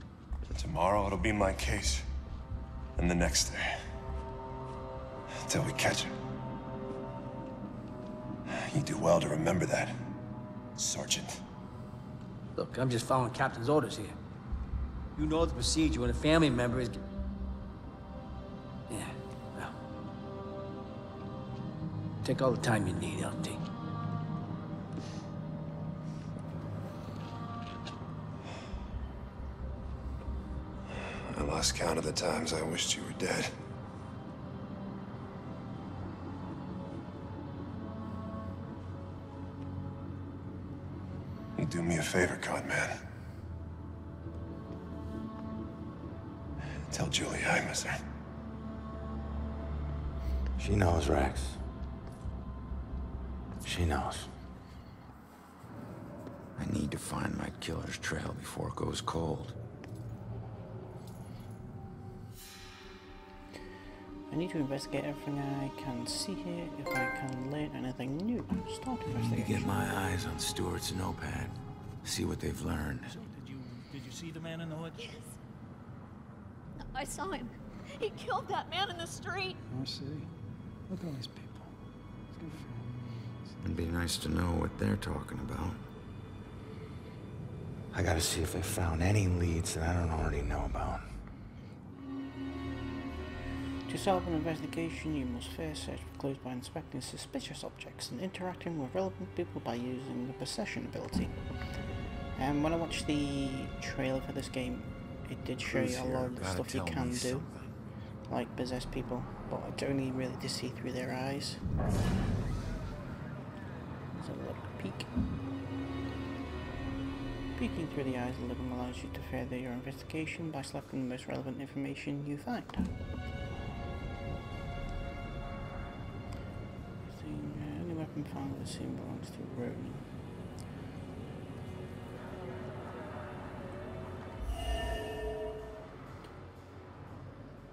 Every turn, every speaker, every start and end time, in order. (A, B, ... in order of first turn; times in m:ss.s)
0:00.5-0:02.0 A
0:03.0-0:03.8 A
0:05.4-0:06.1 A
0:08.5-0:10.0 A
0:10.8-0:11.4 A
0:12.6-0:14.2 B
0:15.2-0:17.0 B
0:18.9-0:19.7 B
0:22.2-0:23.6 B
0:30.9-0:33.5 A
0:41.6-0:43.0 A
0:46.9-0:48.0 A
0:50.6-0:51.6 C
0:53.6-0:54.3 C
0:56.6-0:59.6 C
1:04.3-1:09.8 D
1:09.1-1:13.2 C
1:13.0-1:15.0 E
1:15.0-1:15.3 F
1:16.8-1:19.6 F
1:19.7-1:20.3 E
1:20.9-1:21.7 E
1:22.3-1:23.5 E
1:23.6-1:25.8 C
1:27.9-1:31.1 C
1:33.9-1:41.4 D
1:42.3-1:47.5 D
1:45.6-1:47.8 C
1:48.3-1:51.6 D
1:54.1-1:55.1 D
1:57.5-2:02.9 D
2:07.0-2:10.1 D